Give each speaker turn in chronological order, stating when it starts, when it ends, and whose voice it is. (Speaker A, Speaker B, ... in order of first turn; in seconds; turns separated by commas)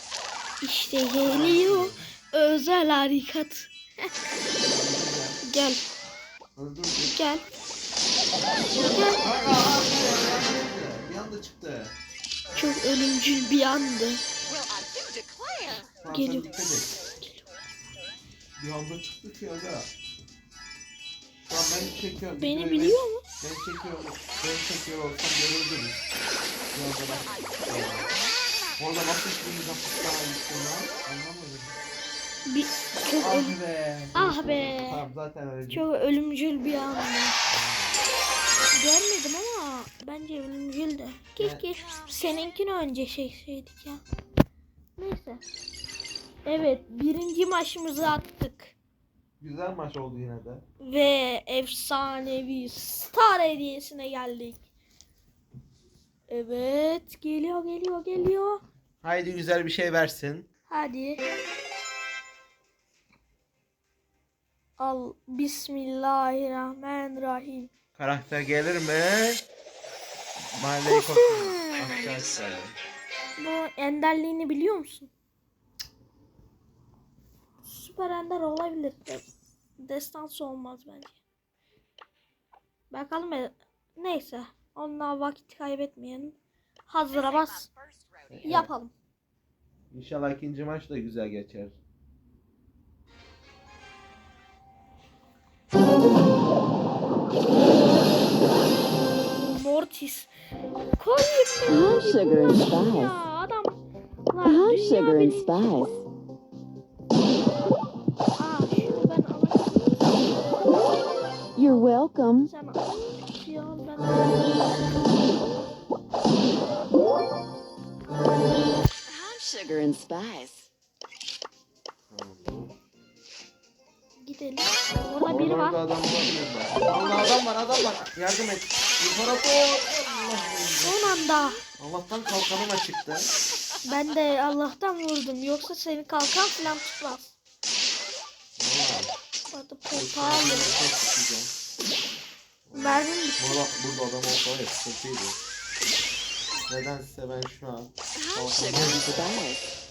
Speaker A: 0.6-3.7, Speaker B: 1.2-2.0, Speaker B: 4.6-5.4, Speaker A: 5.4-5.8, Speaker B: 6.6-7.1, Speaker A: 7.1-7.4, Speaker A: 8.7-9.2, Speaker B: 9.2-11.9, Speaker A: 12.5-14.2, Speaker C: 14.5-15.9, Speaker B: 16.0-16.9, Speaker A: 16.1-16.5, Speaker A: 17.2-17.5, Speaker B: 18.6-19.9, Speaker B: 21.4-26.0, Speaker A: 22.4-23.2, Speaker B: 26.7-28.1, Speaker C: 27.1-27.6, Speaker B: 28.8-31.8, Speaker A: 32.5-33.6, Speaker B: 33.2-35.9, Speaker A: 34.1-35.0, Speaker A: 35.7-37.4, Speaker B: 37.5-38.0, Speaker A: 38.7-44.0, Speaker B: 41.4-41.7, Speaker C: 41.8-42.5, Speaker A: 45.0-45.5, Speaker A: 46.5-48.8, Speaker B: 49.4-50.6, Speaker A: 50.8-54.6, Speaker A: 56.3-58.6, Speaker B: 59.0-60.5, Speaker A: 60.7-61.2, Speaker A: 64.8-67.7, Speaker B: 68.0-69.4, Speaker B: 70.5-72.8, Speaker A: 70.9-72.2, Speaker A: 73.4-75.1, Speaker A: 77.7-79.2, Speaker A: 79.8-81.2, Speaker A: 82.9-86.4, Speaker A: 86.9-87.7, Speaker C: 87.1-88.6, Speaker B: 88.3-88.7, Speaker A: 88.4-88.9, Speaker B: 89.9-91.8, Speaker A: 99.4-100.3, Speaker A: 101.0-103.8, Speaker C: 101.7-103.2, Speaker A: 104.3-105.8, Speaker C: 104.4-106.0, Speaker A: 108.3-110.1, Speaker C: 111.6-112.5, Speaker A: 112.5-114.6, Speaker C: 119.1-120.7, Speaker B: 122.1-122.7, Speaker A: 124.2-125.8, Speaker B: 125.3-131.2, Speaker A: 126.9-127.2, Speaker A: 130.8-131.6, Speaker B: 131.8-133.3, Speaker A: 133.8-137.4, Speaker B: 138.6-139.1, Speaker A: 139.5-140.8, Speaker B: 139.9-141.5, Speaker B: 142.7-145.4, Speaker A: 142.7-143.6, Speaker B: 146.7-149.3, Speaker C: 148.2-149.7